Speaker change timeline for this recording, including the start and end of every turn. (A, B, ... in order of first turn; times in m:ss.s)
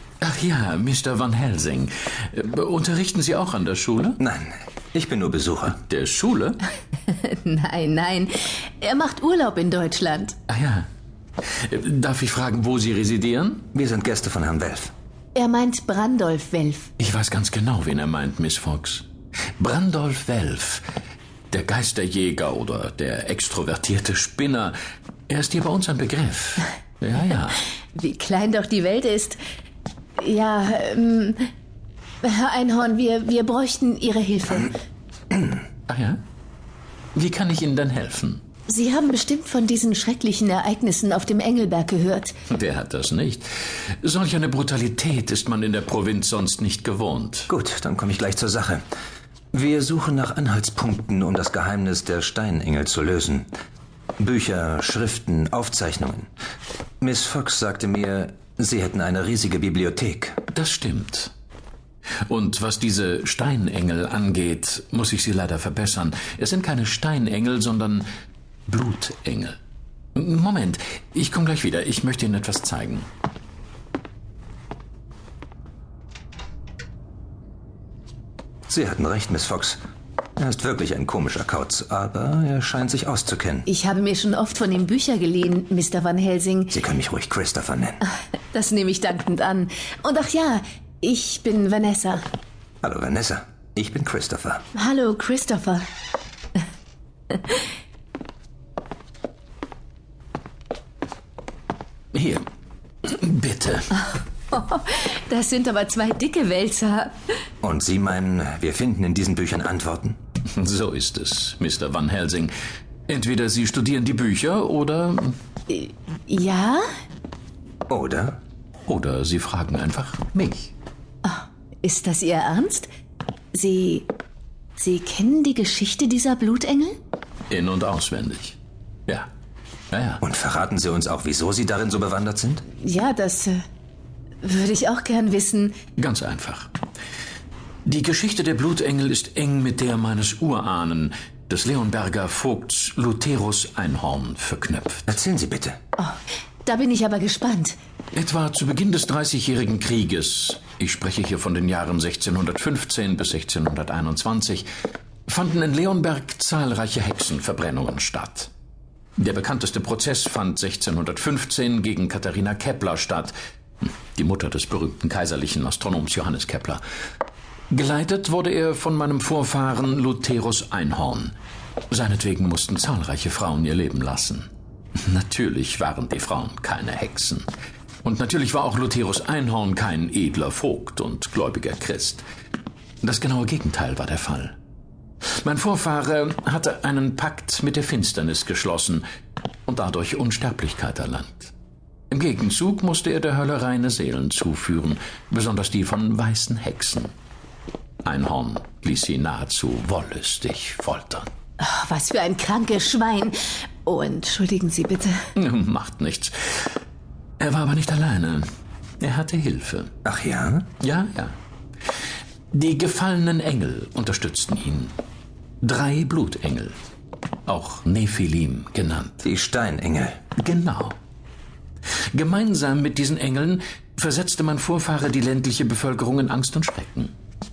0:00.2-0:04.2 A
0:04.2-0:05.8 B
0:05.8-0:06.6 A
0:07.1-0:10.4 C
0:10.5-0:10.9 A
0:11.5-0:13.7 A
0:13.7-0:14.9 B
0:15.4-0:16.9 C
0:17.0-0:19.1 A
0:19.6-0:20.9 A
0:21.5-0:24.8 A
0:25.3-0:27.6 A
0:27.9-0:29.4 C
0:30.2-0:31.5 C
0:32.2-0:34.7 C
0:35.9-0:36.2 A
0:37.2-0:38.4 A
0:38.7-0:42.3 C
0:42.5-0:47.5 A
0:47.5-0:48.8 B
0:49.5-0:53.5 B
0:54.2-0:56.3 B
0:57.0-1:00.4 B
1:00.5-1:01.3 A
1:02.2-1:08.1 A
1:08.7-1:09.6 A
1:10.2-1:13.1 A
1:18.7-1:19.8 B
1:20.4-1:23.7 B
1:23.7-1:26.8 C
1:26.7-1:28.0 B
1:28.5-1:32.2 C
1:32.8-1:34.6 B
1:34.7-1:35.8 C
1:42.1-1:42.4 A
1:43.0-1:44.0 A
1:44.0-1:47.2 C
1:47.6-1:50.2 B
1:50.5-1:52.5 A
1:53.1-1:55.4 A
1:55.7-1:56.8 C
1:57.9-1:58.4 B
1:58.9-2:00.7 A
2:01.2-2:02.9 C
2:03.5-2:04.1 C
2:04.8-2:07.0 C
2:07.5-2:09.3 A
2:09.9-2:10.2 A
2:10.2-2:12.6 B
2:12.8-2:13.6 C
2:14.4-2:15.8 C
2:16.0-2:16.7 A
2:17.9-2:25.1 A
2:25.1-2:25.8 B
2:26.0-2:27.8 C
2:28.1-2:34.7 A
2:35.3-2:38.5 A
2:39.2-2:46.8 A
2:47.7-2:51.3 A
2:51.9-2:54.5 A
2:55.0-2:57.5 A
2:58.0-3:02.3 A
3:03.0-3:04.6 A
3:05.4-3:09.0 A
3:09.7-3:11.5 A
3:12.1-3:17.1 A
3:18.0-3:21.3 A
3:21.6-3:25.2 C
3:25.4-3:26.7 A
3:27.4-3:28.5 A
3:29.0-3:29.9 A
3:30.0-3:30.7 B
3:30.8-3:31.4 A
3:32.5-3:35.0 A
3:35.6-3:36.8 A
3:37.5-3:39.2 A
3:39.2-3:40.2 B
3:40.4-3:41.0 A
3:42.1-3:47.1 A